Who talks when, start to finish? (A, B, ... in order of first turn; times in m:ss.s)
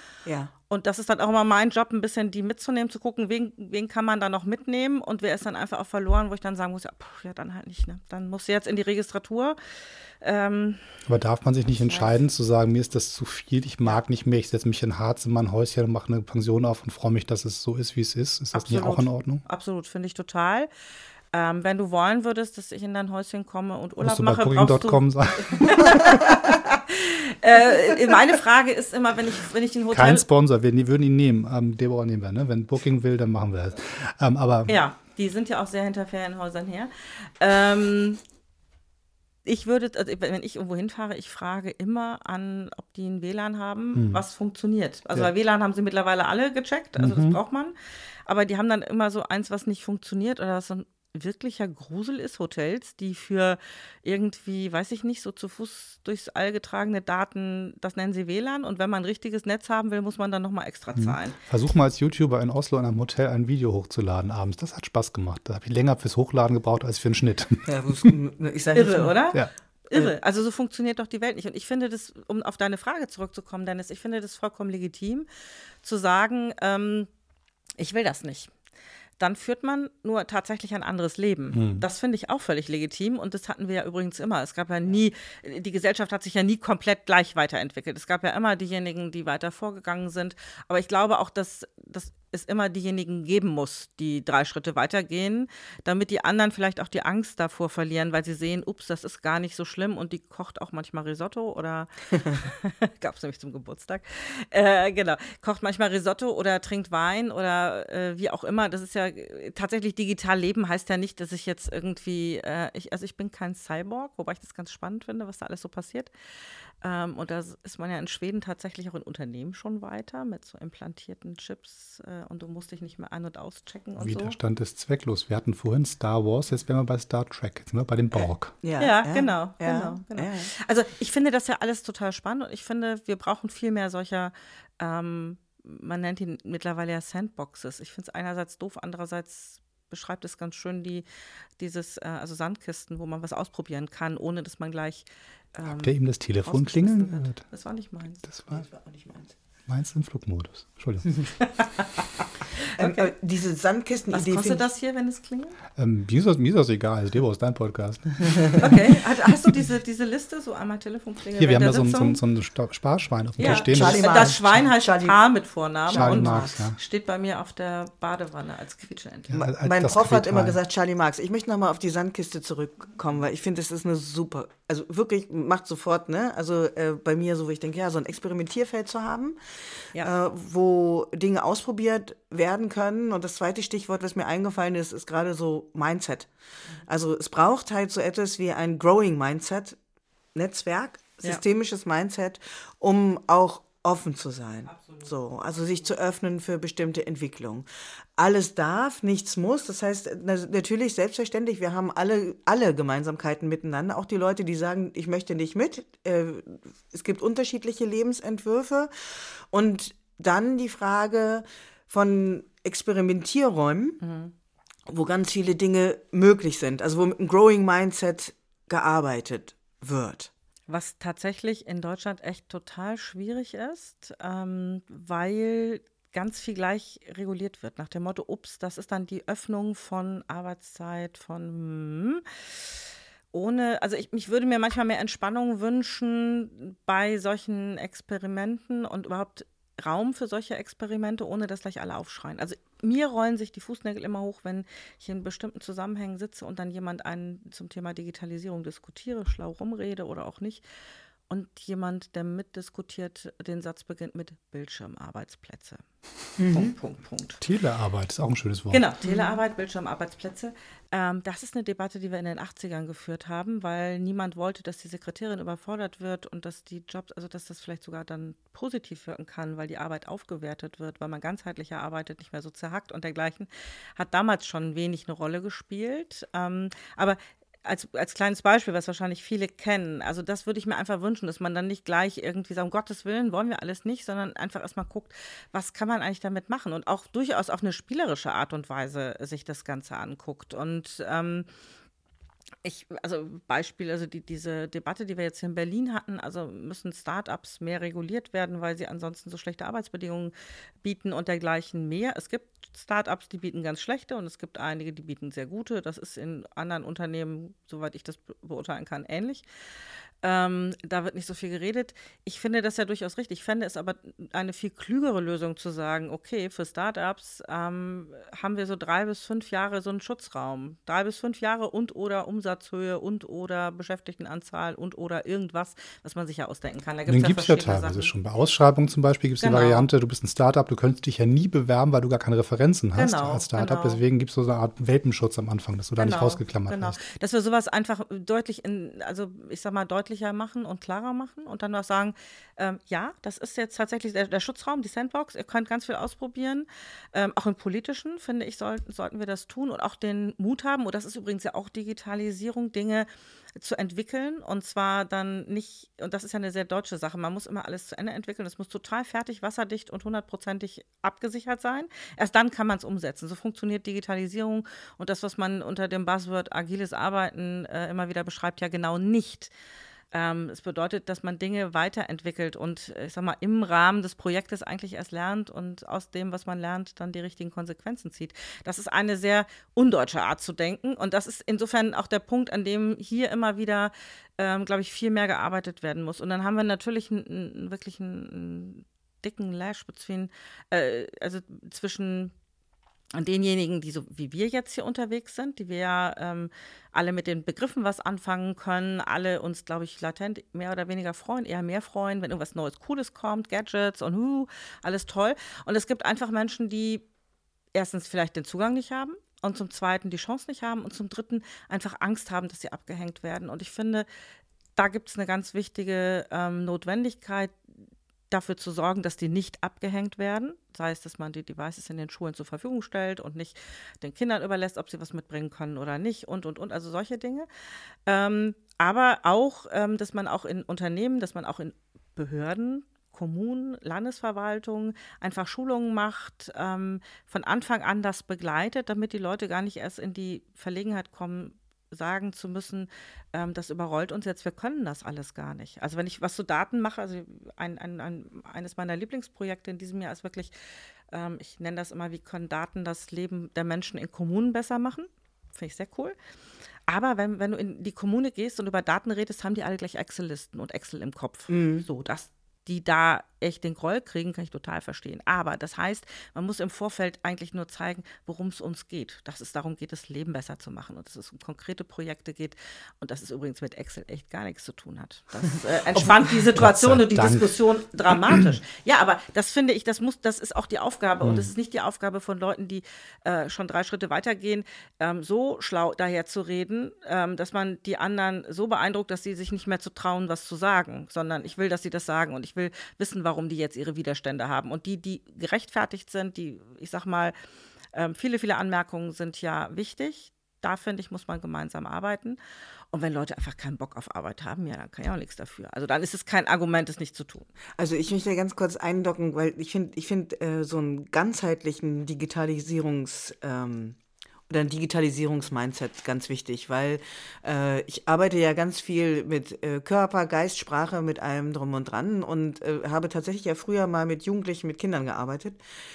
0:00.2-0:00.5 A
0:00.7-0:09.6 B
0:10.2-0:10.9 B
0:11.1-0:19.4 C
0:11.9-0:12.1 B
0:18.5-0:20.7 B
0:21.3-0:30.2 B
0:24.0-0:26.2 C
0:29.9-0:34.8 C
0:34.7-0:38.2 B
0:39.4-0:47.7 B
0:43.9-0:44.2 C
0:47.0-0:47.4 C
0:48.2-1:01.3 B
1:00.9-1:08.1 C
1:07.6-1:09.2 A
1:08.7-1:15.3 B
1:15.8-1:17.1 B
1:17.8-1:18.5 B
1:19.2-1:56.1 B
1:21.5-1:21.8 C
1:56.8-2:04.3 B
2:04.0-2:08.5 C
2:08.6-2:10.5 A
2:08.8-2:21.0 B
2:21.6-2:28.2 B
2:25.7-2:27.4 C
2:28.3-2:28.6 C
2:28.5-2:29.3 A
2:29.7-2:31.3 C
2:31.4-2:32.0 B
2:32.8-2:34.6 A
2:32.8-2:33.1 B
2:34.1-2:35.6 B
2:35.8-2:38.9 C
2:38.6-2:42.2 B
2:41.4-2:44.5 C
2:43.4-2:49.3 B
2:43.4-2:45.2 A
2:45.9-2:46.6 A
2:45.9-2:46.8 C
2:49.3-2:50.6 C
2:49.3-2:59.4 A
3:00.0-3:06.3 A
3:06.9-3:09.8 A
3:10.3-3:17.6 A
3:14.7-3:15.1 B
3:18.2-3:28.9 A
3:29.5-3:34.0 A
3:34.0-3:34.3 B
3:34.9-3:40.3 A
3:40.7-3:52.2 B
3:53.3-4:10.6 B
4:11.3-4:15.8 B
4:16.4-4:16.7 A
4:16.5-4:17.4 B
4:17.4-4:18.8 C
4:18.7-4:51.5 B
4:52.6-5:09.4 B
5:10.2-5:28.1 B
5:27.1-5:37.0 C
5:29.4-5:29.9 B
5:32.9-5:34.0 B
5:36.0-6:09.5 B
6:10.1-6:32.3 B
6:33.1-6:47.0 B
6:47.7-6:54.0 B
6:54.8-6:57.5 B
6:58.3-7:07.5 B
7:08.0-7:30.5 B
7:31.1-7:36.2 B
7:36.9-8:17.3 B
7:41.5-7:41.8 A
7:55.9-7:58.5 C
8:01.2-8:01.5 C
8:17.9-8:22.4 B
8:22.9-8:27.5 B
8:27.8-8:34.0 A
8:34.5-8:45.6 A